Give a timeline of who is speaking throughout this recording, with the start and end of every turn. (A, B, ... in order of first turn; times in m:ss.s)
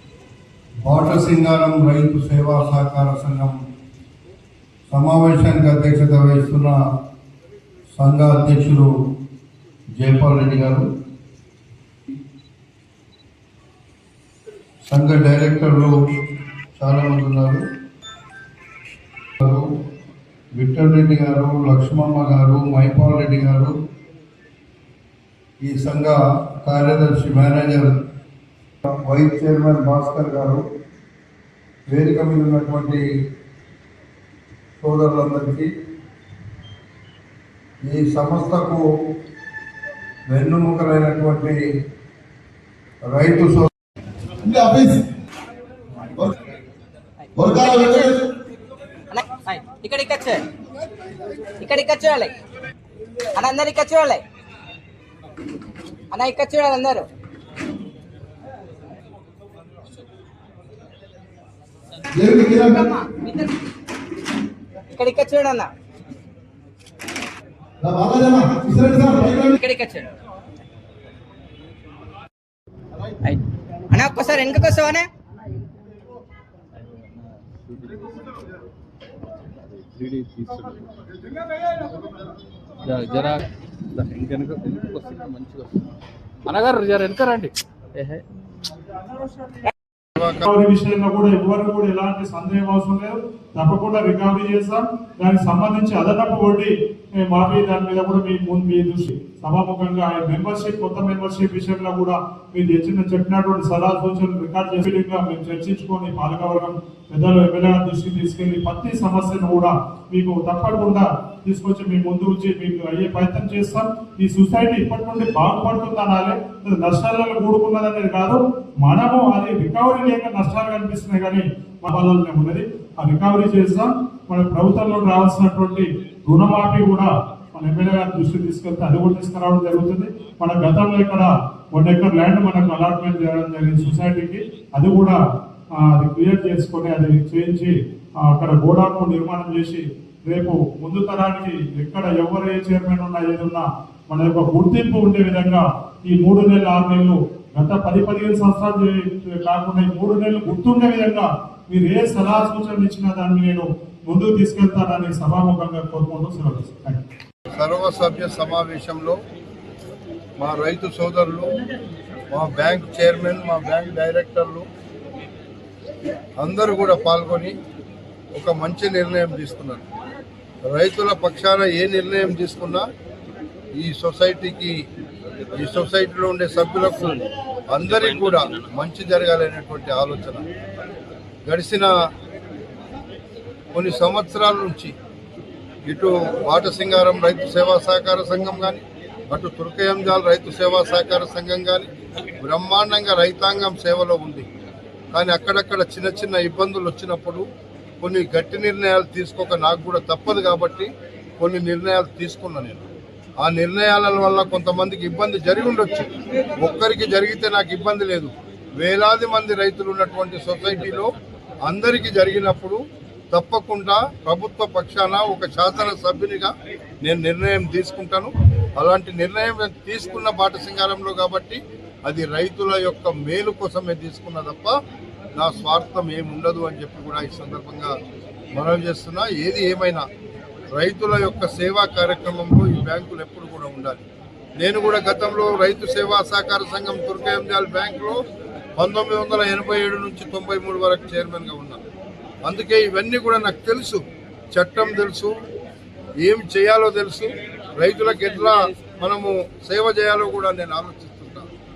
0:00.8-0:03.6 A
0:04.9-0:06.8 A
0:07.9-0:08.9 A
0:10.0-0:10.8 A
0:14.9-0:16.0 A
0:16.8-0:17.6 A
0:19.4-0:19.7 A
0:20.5-0:23.7 A
0:25.6-0:27.9 A
0:28.8-0:30.6 A
0:31.9-0:33.0 A
0:34.8-0:35.7 A
0:37.8-0:38.8 A
0:40.3-0:41.6 A
0:43.0-0:43.7 A
0:44.4-0:45.0 B
0:47.4-0:48.1 C
0:47.4-0:48.2 B
0:49.1-0:50.4 C
0:51.6-0:52.3 C
0:53.3-0:54.2 C
0:56.1-0:57.1 C
1:02.2-1:02.7 B
1:02.2-1:03.6 C
1:04.9-1:05.7 C
1:07.8-1:09.5 B
1:09.4-1:10.2 C
1:13.2-1:15.1 C
1:16.8-1:18.1 D
1:19.5-1:20.9 D
1:22.8-1:25.8 D
1:26.5-1:28.2 D
1:30.2-1:30.4 A
1:30.4-2:15.2 E
2:15.7-2:37.0 E
2:37.5-2:39.2 A
2:40.4-2:41.5 A
2:42.3-2:44.6 A
2:46.4-2:47.5 A
2:48.3-2:49.9 A
2:50.6-2:52.8 A
2:53.8-2:54.8 A
2:55.5-3:00.4 A
3:01.4-3:01.9 A
3:03.7-3:04.9 A
3:05.9-3:14.5 A
3:15.1-3:17.5 A
3:18.0-3:22.8 A
3:23.4-3:31.1 A
3:31.6-3:36.5 A
3:37.0-3:44.7 A
3:45.4-3:47.9 A
3:48.6-3:50.0 A
3:50.7-3:54.0 A
3:54.6-3:58.2 A
3:58.8-4:01.8 A
4:02.4-4:04.0 A
4:04.5-4:05.3 A
4:06.2-4:11.5 A